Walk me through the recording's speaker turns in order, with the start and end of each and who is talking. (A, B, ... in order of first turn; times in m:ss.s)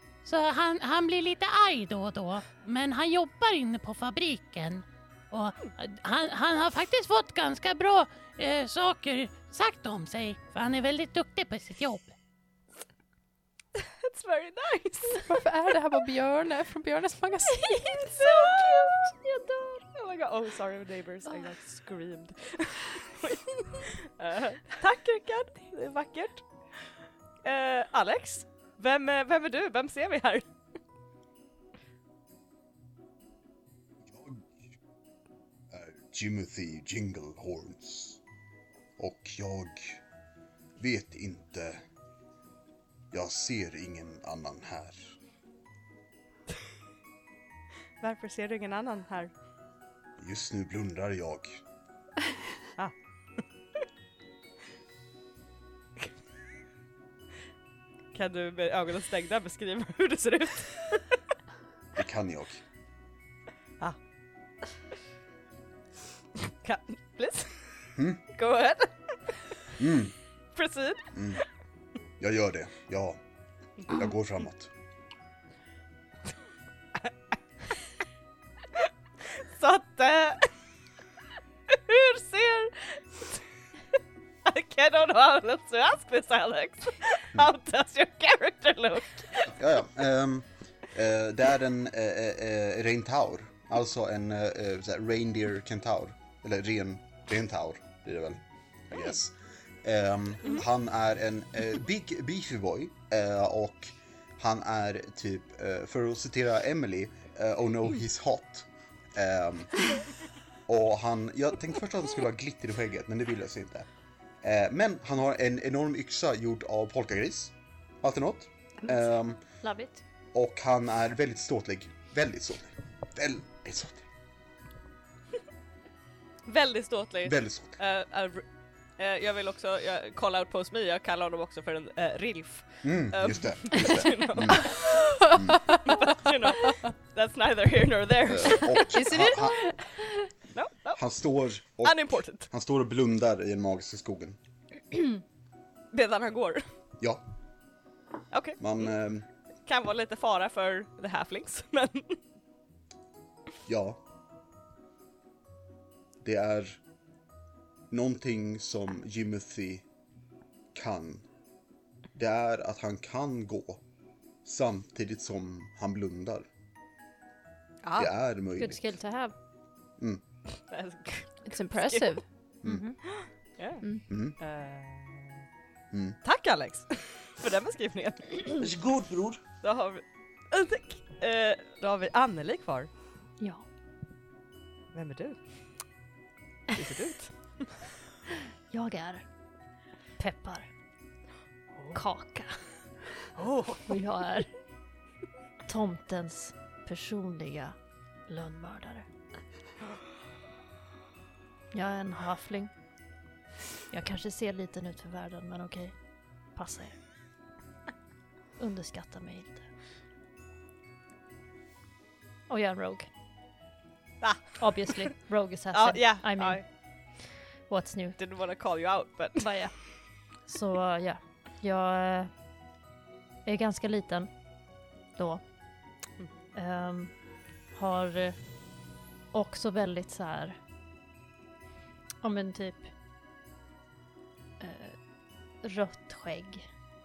0:00.2-0:12.1 A
0:13.8-0:15.3 B
0:15.1-0:18.1 C
0:17.7-0:19.8 D
0:17.8-0:19.1 B
0:19.9-0:26.4 B
0:27.4-0:30.5 B
0:34.0-0:34.6 E
0:35.7-0:38.2 E
0:39.0-0:40.0 E
0:40.8-0:41.8 E
0:43.1-0:45.2 E
0:48.0-0:49.3 B
0:50.2-0:51.6 E
0:58.1-1:01.0 B
1:02.0-1:02.6 E
1:06.6-1:07.6 B
1:08.0-1:08.2 E
1:08.3-1:09.2 B
1:09.8-1:10.2 E
1:10.6-1:11.1 B
1:11.1-1:11.4 E
1:12.2-1:13.2 E
1:13.9-1:14.7 E
1:18.8-1:20.5 B
1:21.7-1:23.3 B
1:24.5-1:29.5 B
1:29.5-1:50.0 E
1:50.7-1:53.9 E
1:54.4-1:59.4 E
1:59.6-2:00.0 D
2:00.3-2:04.1 E
2:06.5-2:08.4 B
2:07.2-2:07.8 E
2:09.0-2:15.0 B
2:12.8-2:15.8 E
2:15.8-2:18.9 B
2:18.2-2:19.6 E
2:18.9-2:20.3 C
2:20.5-2:21.0 B
2:21.0-2:24.4 E
2:21.8-2:22.5 B
2:25.9-2:26.6 B
2:28.3-2:28.9 B
2:28.6-2:29.3 E
2:29.7-2:32.2 B
2:33.7-2:34.0 E
2:36.2-2:36.8 E
2:37.9-2:39.8 E
2:40.7-2:41.2 E
2:42.2-2:43.8 E
2:44.4-2:46.5 E
2:47.8-2:48.1 B
2:48.0-2:48.9 E
2:48.6-2:49.3 D
2:50.7-2:52.1 B
2:51.5-2:52.2 C
2:52.6-2:53.0 D
2:53.1-2:53.8 B
2:54.1-2:54.4 E
2:54.4-2:55.4 B
2:55.9-2:56.2 E
2:56.2-2:58.6 B
2:58.6-2:59.4 E
2:59.6-3:02.9 B
3:04.9-3:05.4 B
3:06.7-3:07.7 B
3:08.7-3:09.2 D
3:10.2-3:10.7 D
3:11.8-3:12.0 B
3:11.9-3:12.6 D
3:13.4-3:14.0 B
3:13.9-3:14.5 D
3:15.7-3:17.8 D
3:18.3-3:19.0 D
3:21.7-3:22.7 D
3:23.9-3:26.0 D
3:26.6-3:27.0 D
3:28.6-3:29.7 D
3:32.5-3:33.1 D
3:34.2-3:35.1 B
3:34.6-3:36.6 D
3:35.7-3:36.6 B
3:37.7-3:38.2 D
3:38.2-3:39.5 B
3:39.4-3:39.9 D
3:40.4-3:42.3 D
3:43.4-3:44.3 D
3:45.2-3:45.4 D
3:46.6-3:47.1 D
3:47.7-3:48.4 D
3:49.3-3:50.6 D
3:52.2-3:52.9 D
3:54.6-3:55.0 D
3:55.6-3:56.7 D